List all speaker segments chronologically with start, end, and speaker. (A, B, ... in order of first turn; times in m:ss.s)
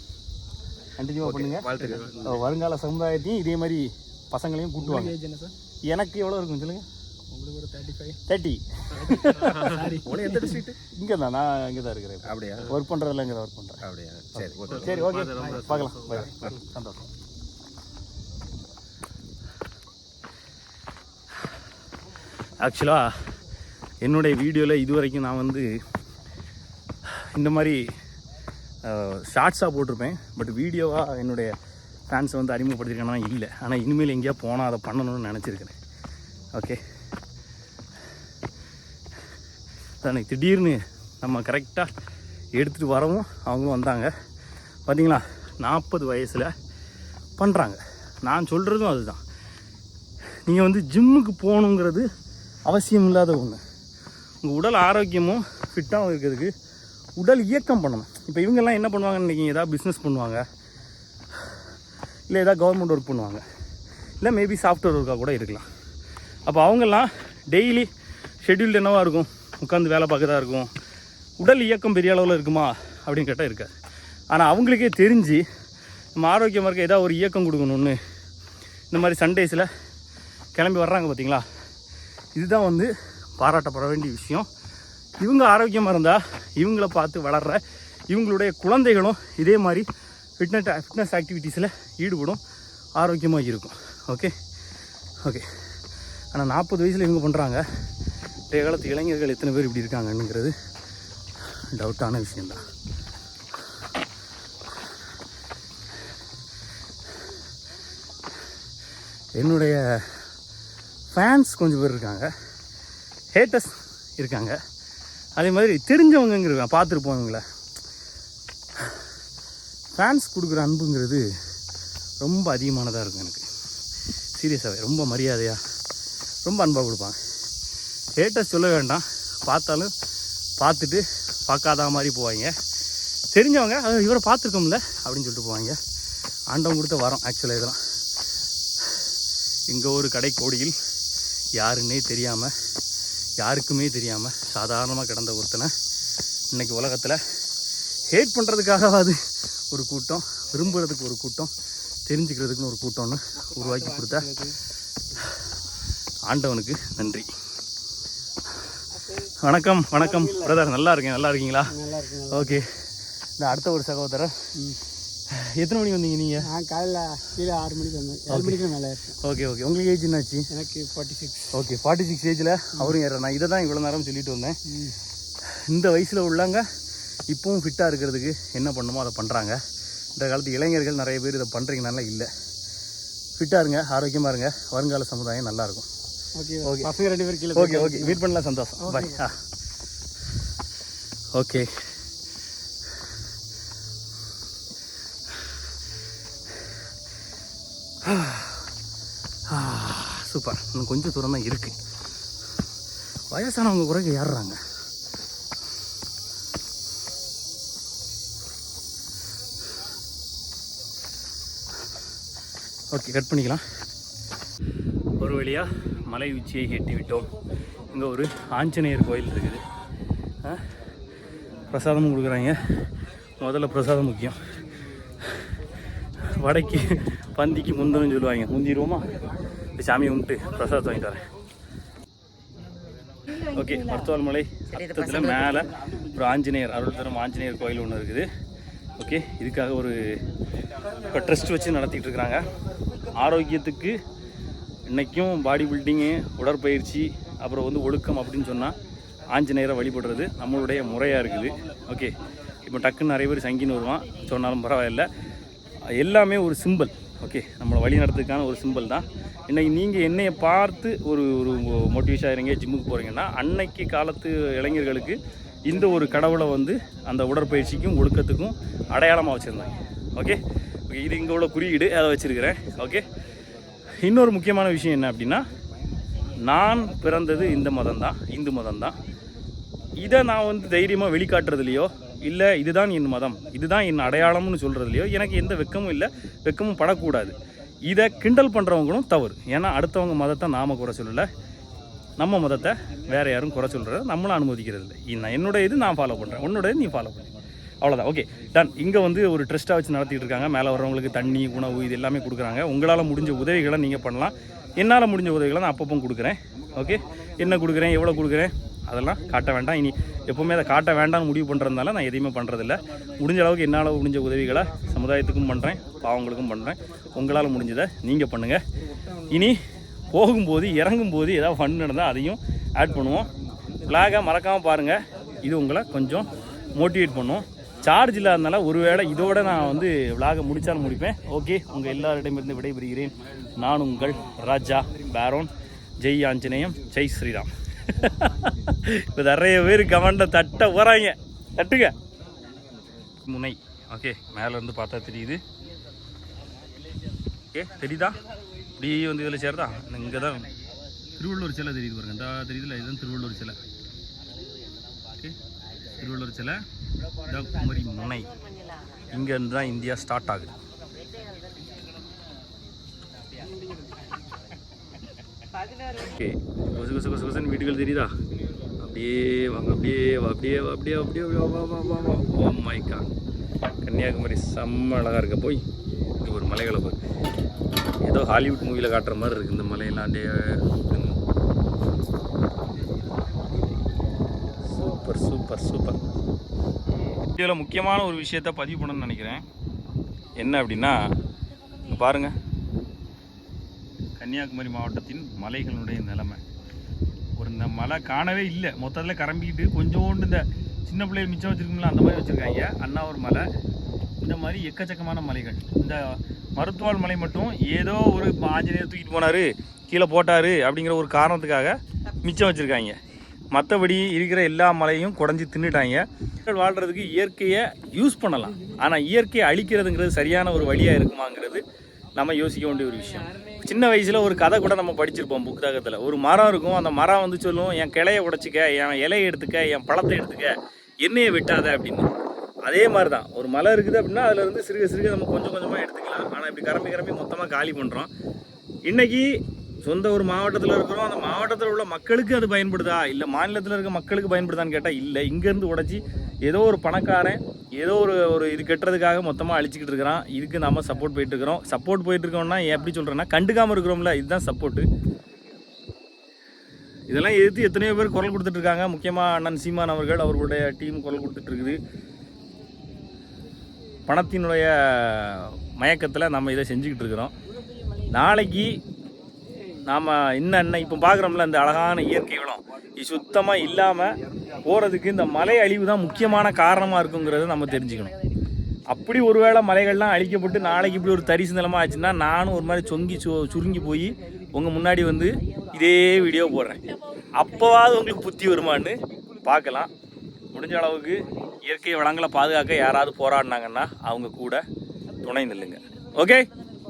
0:01.0-0:05.2 A
0:01.2-0:02.4 B
0:04.8-0:05.5 C
0:05.9-0:06.9 A
0:07.3-0:08.2 C
0:08.3-0:09.8 A
0:09.7-0:10.2 C
0:09.9-0:10.8 B
0:10.8-0:13.8 A
0:12.3-0:12.8 B
0:13.8-0:15.6 B
0:14.3-0:17.0 A
0:22.6-0:23.1 A
0:24.0-0:25.7 A
0:27.1-0:27.8 A
0:28.8-0:31.5 A
0:32.1-0:35.7 A
0:36.5-0:36.8 A
0:40.0-0:41.9 A
0:42.6-0:44.1 A
0:44.9-0:46.5 A
0:47.4-0:49.2 A
0:50.4-0:52.0 A
0:52.6-0:53.6 A
0:54.4-0:56.5 A
0:57.2-1:00.4 A
1:02.3-1:03.4 A
1:04.2-1:05.7 A
1:06.5-1:07.9 A
1:08.4-1:10.7 A
1:11.4-1:13.7 A
1:14.3-1:15.4 A
1:16.2-1:18.0 A
1:18.9-1:19.7 A
1:20.6-1:21.4 A
1:22.4-1:24.5 A
1:25.2-1:29.9 A
1:30.4-1:32.4 A
1:33.0-1:34.3 A
1:36.3-1:37.6 A
1:38.5-1:40.5 A
1:41.7-1:42.6 A
1:49.4-1:49.8 A
1:51.1-1:52.3 A
1:53.3-1:54.6 A
1:55.4-1:57.4 A
2:00.0-2:01.2 A
2:02.2-2:03.4 A
2:04.4-2:05.6 A
2:06.4-2:07.2 A
2:08.2-2:09.9 A
2:10.6-2:12.5 A
2:13.3-2:15.8 A
2:16.5-2:17.8 A
2:19.7-2:20.7 A
2:21.6-2:22.5 A
2:23.4-2:25.7 A
2:26.5-2:27.2 A
2:28.1-2:29.2 A
2:29.7-2:31.5 A
2:32.1-2:34.4 A
2:33.8-2:34.6 C
2:36.3-2:37.3 A
2:39.3-2:41.8 A
2:40.2-2:40.5 C
2:41.7-2:42.6 C
2:42.3-2:42.6 A
2:43.4-2:44.5 A
2:45.3-2:46.5 A
2:46.4-2:49.2 C
2:48.3-2:48.7 A
2:49.2-2:50.5 A
2:50.5-2:51.6 C
2:51.5-2:54.6 A
2:54.7-2:55.0 C
2:55.7-2:56.7 A
2:57.3-2:59.6 A
3:00.2-3:02.3 A
3:03.4-3:05.9 A
3:06.4-3:08.2 C
3:06.6-3:06.9 A
3:07.5-3:09.4 A
3:08.8-3:09.2 C
3:11.3-3:11.7 A
3:18.0-3:18.7 A
3:19.5-3:21.8 A
3:23.3-3:24.6 A
3:32.9-3:33.6 A
3:35.2-3:37.3 A
3:37.9-3:39.6 A
3:41.7-3:42.6 A
3:43.4-3:44.4 A
3:46.2-3:49.2 A
3:49.7-3:51.3 A
3:53.3-3:58.3 A
3:59.0-4:00.0 A
4:01.1-4:02.5 A
4:03.2-4:04.0 A
4:04.9-4:08.8 A
4:09.3-4:15.1 A
4:15.9-4:33.0 A
4:34.0-4:35.4 A
4:36.4-4:39.0 A
4:40.0-4:47.4 A
4:47.9-4:51.3 A
4:52.2-5:18.6 A
5:19.3-5:23.3 A
5:23.8-5:42.0 A
5:43.2-5:45.4 A
5:47.5-5:48.2 A
5:48.8-5:50.5 A
5:51.2-5:53.6 A
5:56.0-5:56.6 A
5:57.2-5:58.3 A
5:59.1-6:00.6 A
6:05.9-6:08.1 A
6:08.8-6:13.1 A
6:13.8-6:15.6 A
6:16.2-6:17.0 A
6:18.0-6:21.2 A
6:24.6-6:26.0 A
6:27.1-6:29.4 A
6:30.4-6:31.0 A
6:31.8-6:32.4 A
6:34.2-6:36.4 A
6:37.4-6:43.5 A
6:44.2-6:53.0 A
6:53.5-7:01.6 A
7:02.2-7:12.1 A
7:12.7-7:18.1 A
7:18.9-7:19.3 A
7:19.8-7:34.9 A
7:37.1-7:41.8 A
7:44.1-7:47.3 A
7:48.1-7:48.8 A
7:49.8-7:58.2 A
7:58.9-8:09.9 A
8:10.5-8:14.6 A
8:15.2-8:16.5 A